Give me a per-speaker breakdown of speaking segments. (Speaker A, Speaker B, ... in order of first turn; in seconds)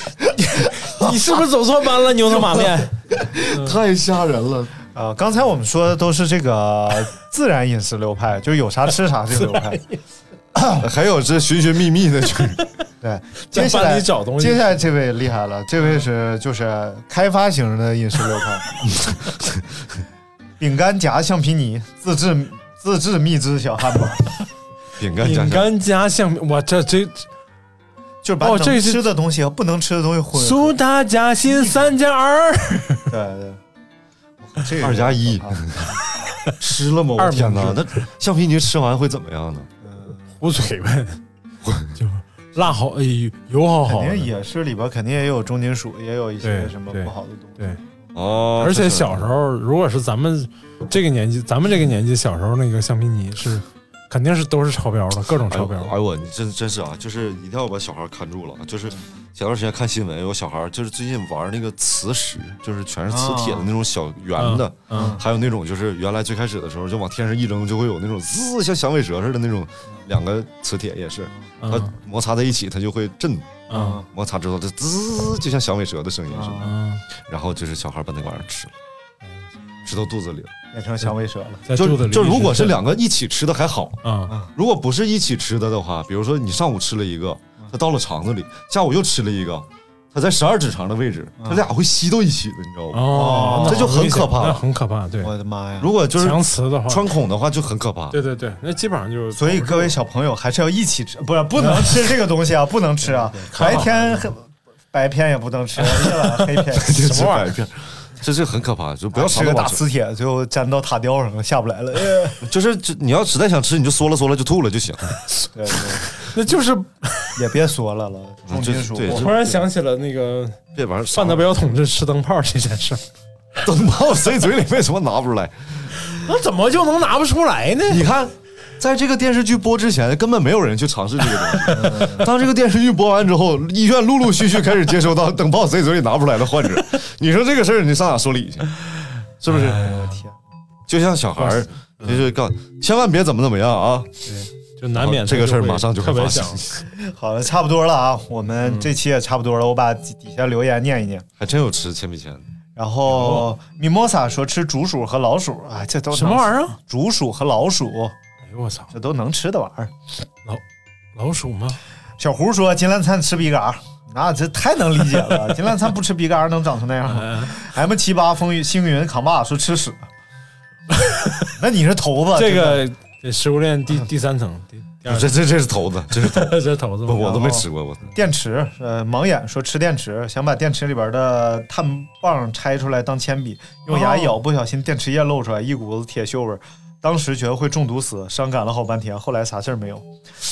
Speaker A: 0.2-1.1, 2.3-4.7, 10.8-12.6, 18.9-19.6, 25.0-25.7, 34.8-36.0, 36.6-39.7, 41.6-41.9, 48.1-49.3, 55.5-78.7, 79.9-80.5, 81.8-84.0, 84.5-94.6, 95.8-98.2, 103.6-103.9, 106.8-109.8, 112.4-115.2, 118.5-119.3, 120.8-121.6, 123.6-126.0, 127.9-138.7, 140.9-144.2, 144.9-146.8, 151.4-152.4, 175.1-178.1
Speaker B: 0.4-2.9, 3.5-3.8, 9.4-10.0, 13.5-14.8, 25.2-27.3, 28.4-29.1, 30.4-33.1, 37.2-37.9, 40.4-41.2, 42.0-44.3, 46.4-47.8, 48.6-55.9, 64.4-65.2, 71.6-71.9, 73.7-74.0, 76.6-77.0, 81.7-82.8, 84.0-84.3, 92.9-95.3, 96.2-97.1, 98.1-100.0, 103.0-104.3, 105.8-107.5, 116.1-117.4, 119.1-120.6, 121.1-123.0, 126.2-128.1, 139.5-140.2, 144.3-146.7, 153.1-153.5, 156.1-156.8, 158.5-158.9, 161.2-161.8, 167.1-167.6, 170.9-171.5, 172.3-175.3, 176.1-177.4, 183.9-184.4
Speaker C: 4.9-9.8, 10.6-10.8, 13.0-18.7, 20.6-24.3, 28.2-30.8, 33.1-33.6, 34.4-36.0, 39.8-40.2, 43.9-47.9, 63.1-63.7, 64.9-65.2, 73.7-74.1, 76.3-76.8, 80.7-81.7, 91.4-91.7, 93.1-93.9, 95.2-95.9, 99.3-107.0, 109.1-112.4, 115.5-116.1, 117.3-119.7, 131.8-132.3, 139.4-140.4, 146.9-151.2, 152.8-158.2, 158.9-159.9, 162.2-170.1, 171.5-172.8, 177.2-190.1